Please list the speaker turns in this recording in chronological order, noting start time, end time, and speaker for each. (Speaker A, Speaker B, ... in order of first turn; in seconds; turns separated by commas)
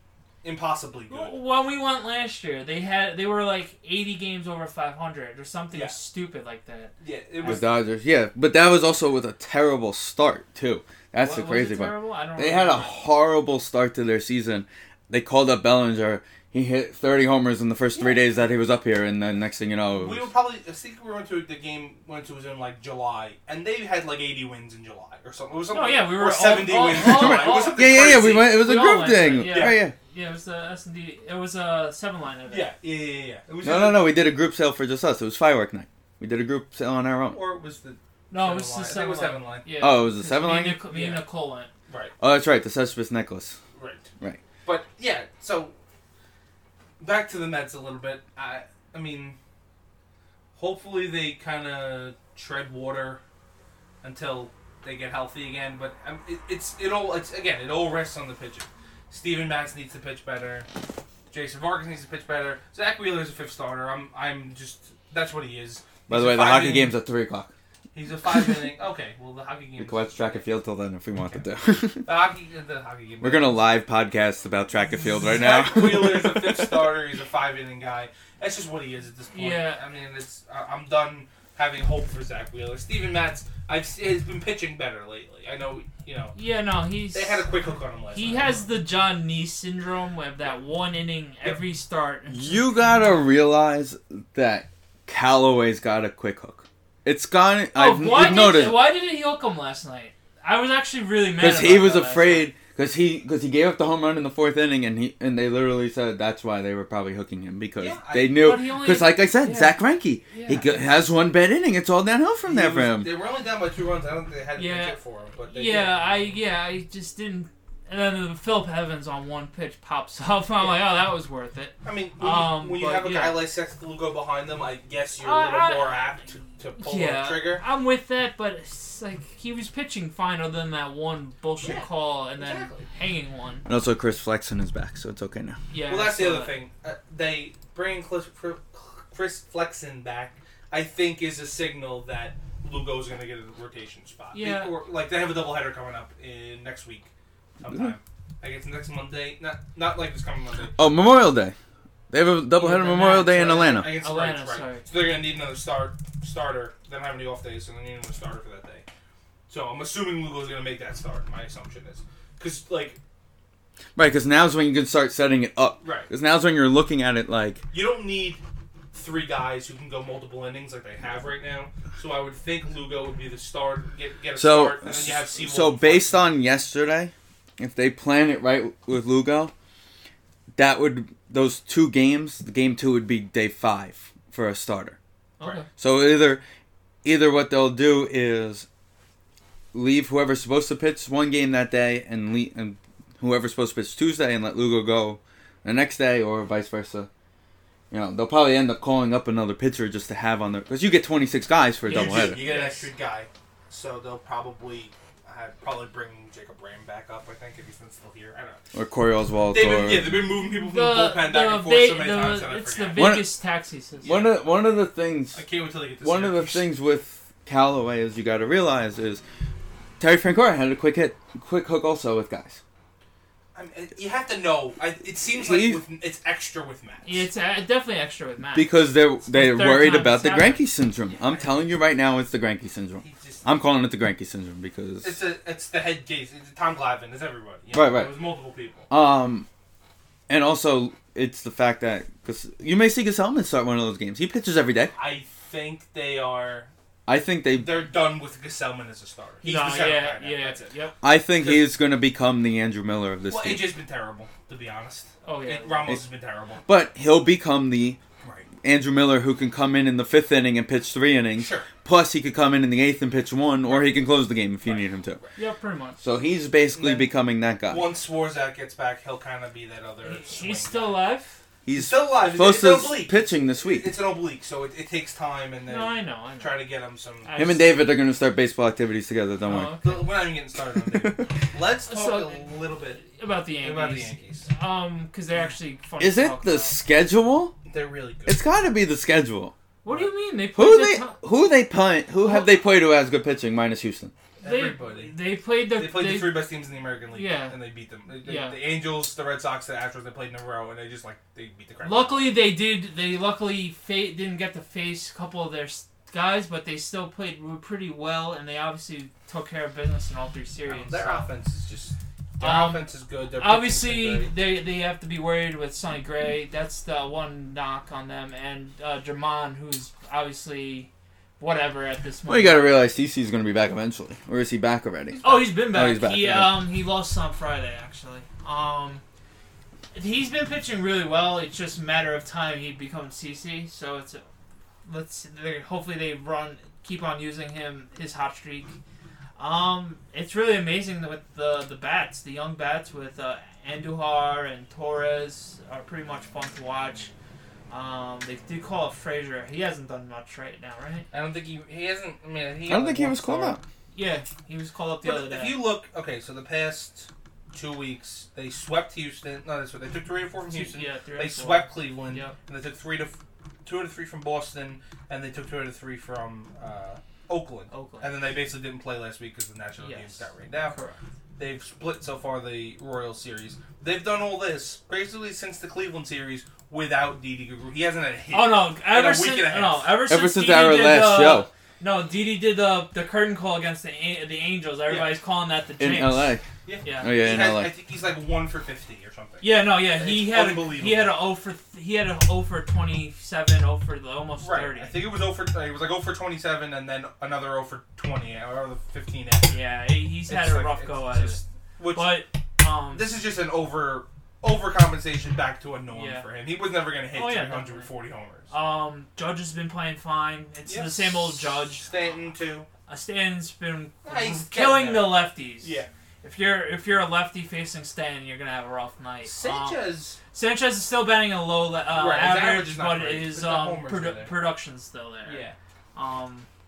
Speaker A: 0.4-1.4, Speaker B: 1.1-7.6, Speaker A: 7.0-7.6, Speaker C: 7.4-20.3, Speaker B: 11.2-13.0, Speaker A: 17.9-18.3, Speaker A: 19.9-28.6, Speaker B: 25.7-32.7, Speaker C: 26.9-29.9, Speaker A: 29.4-29.8, Speaker A: 32.5-34.1, Speaker C: 33.6-37.4, Speaker A: 37.3-39.7, Speaker B: 38.3-41.7, Speaker C: 39.8-40.8, Speaker A: 40.9-41.2, Speaker A: 41.9-42.1, Speaker C: 42.2-43.6, Speaker A: 43.7-44.1, Speaker A: 44.6-45.7, Speaker A: 47.0-49.4, Speaker A: 50.5-53.2, Speaker A: 54.0-60.7, Speaker A: 61.3-67.0, Speaker C: 66.1-67.5, Speaker A: 67.9-70.4, Speaker C: 69.8-72.1, Speaker A: 72.0-73.6, Speaker C: 73.2-76.9, Speaker A: 75.2-86.3, Speaker B: 79.3-79.8, Speaker B: 86.3-87.4, Speaker A: 87.1-88.7, Speaker B: 88.1-92.8, Speaker C: 92.3-98.8, Speaker B: 97.7-102.5, Speaker C: 101.4-113.1, Speaker A: 107.8-108.6, Speaker B: 108.3-110.8, Speaker A: 112.4-116.3, Speaker B: 114.5-123.4, Speaker A: 120.5-120.9, Speaker A: 121.8-127.6, Speaker B: 125.2-126.2, Speaker B: 126.8-133.7, Speaker A: 131.6-132.9, Speaker C: 133.7-135.6, Speaker B: 135.7-136.6, Speaker A: 135.9-150.8, Speaker B: 144.3-144.7, Speaker C: 150.8-151.6, Speaker C: 152.1-153.9, Speaker B: 152.6-154.8, Speaker A: 153.0-158.8, Speaker A: 159.5-163.0, Speaker C: 163.9-167.6, Speaker A: 165.8-166.1, Speaker A: 167.7-168.4, Speaker A: 168.9-176.2, Speaker C: 174.3-179.5, Speaker C: 180.6-185.0, Speaker B: 185.4-185.7, Speaker C: 185.8-186.4, Speaker C: 187.0-188.7, Speaker C: 189.7-197.1, Speaker C: 197.9-202.4, Speaker A: 201.8-208.6, Speaker B: 201.9-202.9, Speaker C: 208.7-210.2, Speaker A: 209.5-213.2, Speaker B: 210.5-214.2, Speaker C: 212.9-213.3, Speaker A: 214.0-214.4, Speaker C: 214.0-215.4, Speaker A: 215.3-216.7, Speaker C: 216.0-219.2, Speaker C: 220.0-222.6, Speaker A: 223.5-227.3, Speaker C: 225.3-225.8, Speaker B: 227.0-230.6, Speaker C: 228.5-235.2, Speaker A: 231.1-231.7, Speaker A: 233.0-233.4, Speaker A: 235.0-238.9, Speaker C: 237.7-238.1, Speaker C: 238.9-239.4, Speaker C: 240.3-244.9, Speaker A: 244.9-246.7, Speaker C: 247.1-247.7, Speaker A: 247.5-250.7, Speaker B: 249.4-250.9, Speaker C: 251.0-253.7, Speaker A: 251.3-251.7, Speaker A: 253.3-256.6, Speaker B: 255.2-255.8, Speaker C: 256.6-258.0, Speaker A: 258.2-258.5, Speaker C: 258.6-265.2, Speaker A: 261.4-261.7, Speaker A: 263.6-264.0, Speaker A: 264.6-265.3, Speaker B: 265.4-266.0, Speaker C: 266.0-267.9, Speaker A: 266.7-267.1, Speaker A: 267.6-271.0, Speaker B: 270.0-271.4, Speaker C: 271.6-273.9, Speaker A: 271.7-277.4, Speaker B: 275.7-276.6, Speaker B: 277.2-277.8, Speaker C: 277.4-279.8, Speaker B: 279.4-280.0, Speaker A: 279.8-284.5, Speaker C: 280.9-281.2, Speaker B: 281.9-286.8, Speaker C: 286.0-287.6, Speaker A: 287.6-288.4, Speaker C: 288.3-289.5, Speaker B: 289.8-291.1, Speaker C: 290.5-294.1, Speaker A: 294.4-302.3, Speaker B: 294.4-296.4, Speaker B: 297.1-297.6, Speaker B: 298.2-298.6, Speaker B: 301.8-311.3, Speaker A: 310.6-314.3, Speaker B: 312.4-312.9, Speaker B: 313.4-322.8, Speaker C: 322.3-326.6, Speaker B: 325.2-329.0, Speaker B: 329.9-334.2, Speaker B: 334.8-338.7, Speaker B: 339.4-347.1, Speaker B: 347.7-351.1, Speaker A: 351.1-353.6, Speaker C: 352.7-353.6, Speaker B: 353.9-355.6, Speaker A: 355.0-370.8, Speaker B: 360.5-362.4, Speaker B: 367.7-368.1, Speaker B: 369.8-371.0, Speaker A: 371.4-379.9, Speaker B: 378.3-387.1, Speaker C: 380.1-381.5, Speaker A: 384.9-385.2, Speaker C: 385.8-386.5, Speaker A: 386.6-391.2, Speaker C: 387.0-387.7, Speaker B: 389.4-395.0, Speaker A: 394.4-399.6, Speaker B: 399.5-401.4, Speaker A: 400.3-402.2, Speaker B: 401.9-403.1, Speaker A: 402.9-408.5, Speaker B: 405.9-406.2, Speaker B: 407.1-407.9, Speaker B: 408.5-411.9, Speaker A: 410.6-412.7, Speaker B: 412.9-426.5, Speaker A: 414.0-415.9, Speaker A: 419.2-420.2, Speaker A: 421.9-424.4, Speaker A: 425.2-425.6